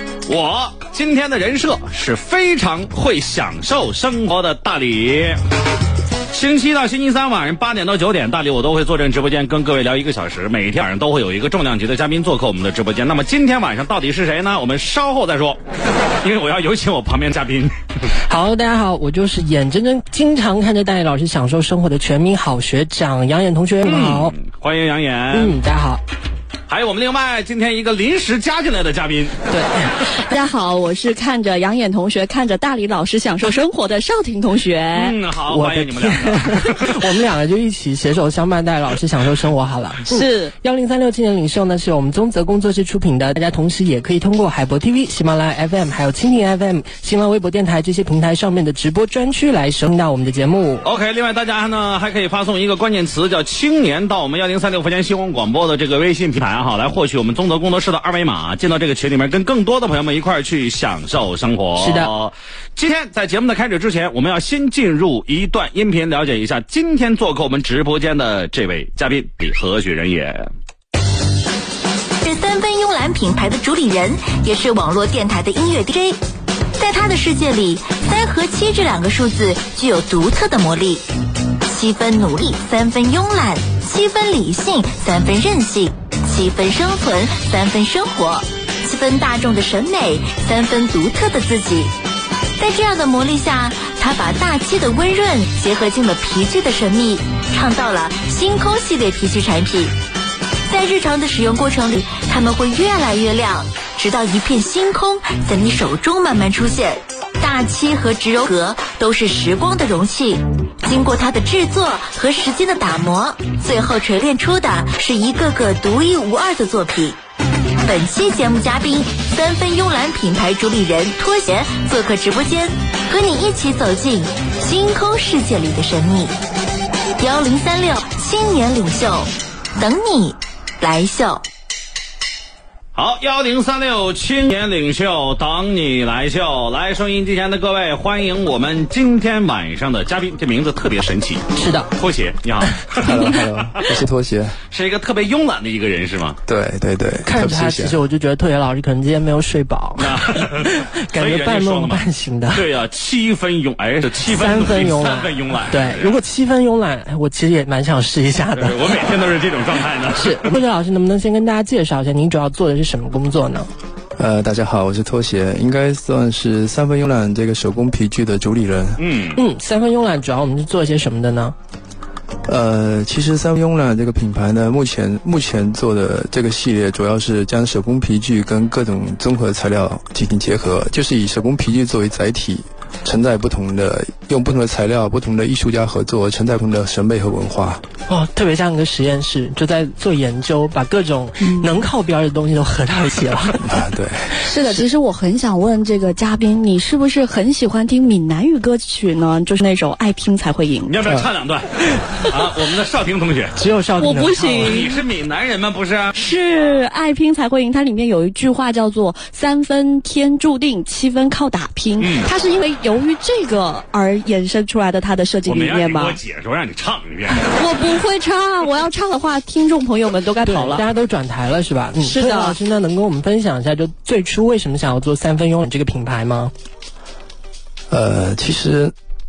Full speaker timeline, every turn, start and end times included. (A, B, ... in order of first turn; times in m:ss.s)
0:00.3-0:05.4 A
0:06.3-0:15.6 A
0:16.2-0:17.8 A
0:18.3-0:24.3 B
0:23.8-0:25.6 A
0:25.3-0:26.0 B
0:26.7-0:29.4 A
0:29.5-0:30.0 B
0:30.1-0:35.2 C
0:34.9-0:37.0 A
0:35.5-0:50.9 B
0:40.1-0:40.5 C
0:50.8-1:10.5 A
1:01.8-1:02.1 B
1:12.2-1:16.2 D
1:16.8-1:21.0 D
1:21.6-1:31.9 D
1:32.6-1:39.9 D
1:40.7-1:57.2 D
1:57.8-2:06.4 D
2:07.2-2:11.5 D
2:13.0-2:24.0 A
2:21.6-2:21.9 B
2:22.7-2:23.2 B
2:23.0-2:24.6 E
2:24.7-2:26.4 A
2:26.4-2:28.0 E
2:27.2-2:32.6 B
2:30.0-2:36.2 A
2:34.2-2:39.1 B
2:38.6-2:40.6 A
2:40.2-2:43.7 B
2:44.2-2:49.0 E
2:49.0-2:49.4 A
2:49.4-2:51.6 B
2:52.5-3:07.8 E
3:08.1-3:13.6 B
3:11.4-3:11.8 C
3:13.6-3:14.4 E
3:14.4-3:20.9 C
3:20.8-3:23.6 A
3:23.6-3:24.8 B
3:24.0-3:25.0 C
3:24.6-3:26.2 A
3:26.1-3:36.2 C
3:32.0-3:32.3 A
3:35.5-3:37.7 A
3:37.3-3:40.8 C
3:40.4-3:46.5 B
3:42.0-3:42.6 C
3:47.9-3:48.9 E